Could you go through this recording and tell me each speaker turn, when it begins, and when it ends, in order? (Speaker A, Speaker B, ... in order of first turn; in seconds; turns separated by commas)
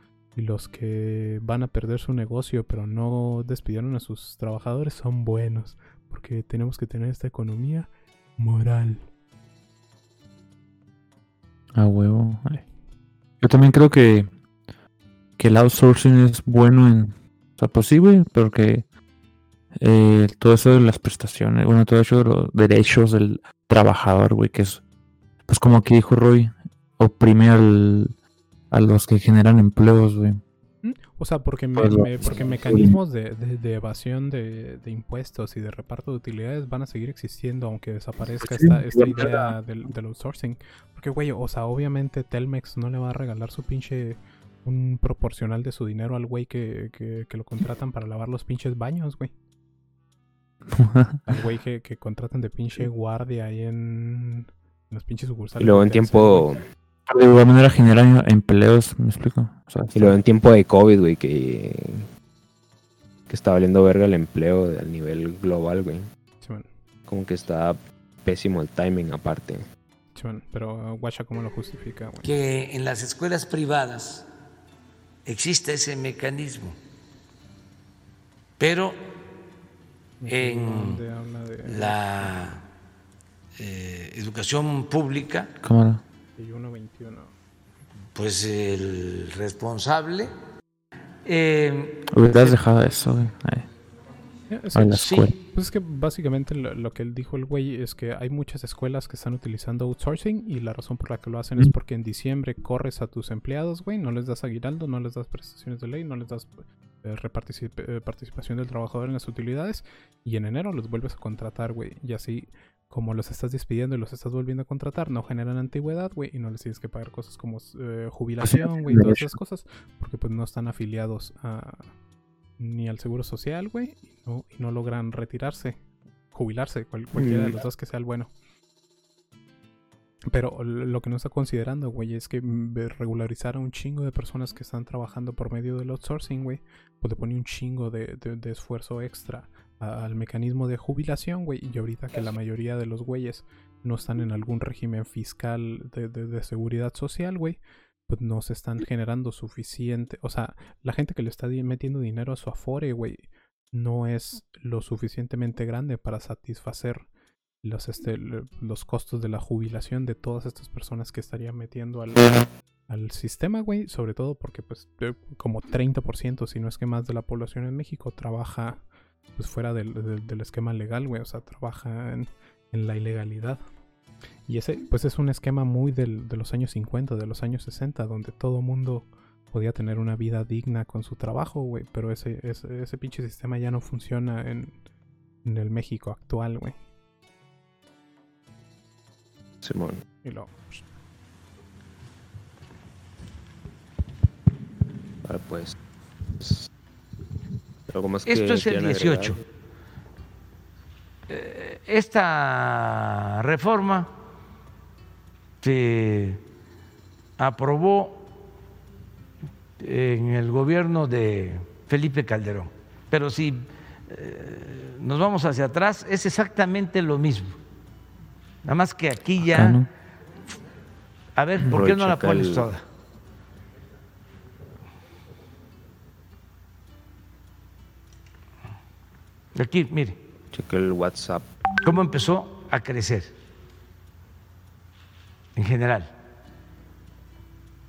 Speaker A: 0.3-9.1, Speaker B: 11.8-12.6, Speaker B: 13.4-14.3, Speaker B: 15.4-18.9, Speaker B: 19.8-24.8, Speaker B: 25.5-28.1, Speaker B: 28.7-30.4, Speaker A: 30.8-49.3, Speaker B: 31.8-33.0, Speaker B: 38.4-39.5, Speaker B: 50.8-51.2, Speaker A: 51.3-56.5, Speaker C: 55.6-56.6, Speaker B: 57.1-60.2, Speaker C: 59.9-62.1, Speaker C: 63.3-66.1, Speaker A: 66.4-66.7, Speaker C: 67.1-69.7, Speaker A: 70.2-72.3, Speaker D: 72.2-74.3, Speaker D: 75.3-76.8, Speaker D: 78.6-79.0, Speaker A: 80.2-82.5, Speaker D: 80.3-81.0, Speaker D: 81.7-82.6, Speaker D: 83.6-85.5, Speaker B: 85.6-86.0, Speaker A: 86.4-87.3, Speaker D: 88.2-90.3, Speaker D: 91.2-92.6, Speaker B: 92.1-93.7, Speaker A: 94.5-121.9, Speaker B: 94.8-95.4, Speaker D: 95.0-95.3, Speaker B: 118.4-119.4, Speaker A: 122.6-125.8, Speaker A: 126.3-128.3, Speaker C: 127.2-127.5, Speaker A: 130.3-157.1, Speaker A: 157.6-168.8, Speaker A: 169.4-173.6, Speaker A: 174.5-184.8, Speaker A: 185.4-186.8, Speaker C: 189.6-190.0, Speaker A: 190.2-190.8, Speaker C: 195.2-195.8, Speaker C: 196.4-196.7, Speaker C: 197.9-199.4, Speaker D: 198.3-199.4, Speaker D: 201.3-204.1, Speaker D: 205.6-206.4, Speaker D: 207.4-208.3, Speaker D: 209.8-217.6, Speaker D: 218.6-219.9, Speaker B: 219.5-219.9, Speaker D: 221.4-222.8, Speaker C: 221.7-222.7, Speaker D: 229.6-230.2, Speaker C: 230.5-231.5, Speaker D: 231.8-233.3, Speaker D: 235.6-236.1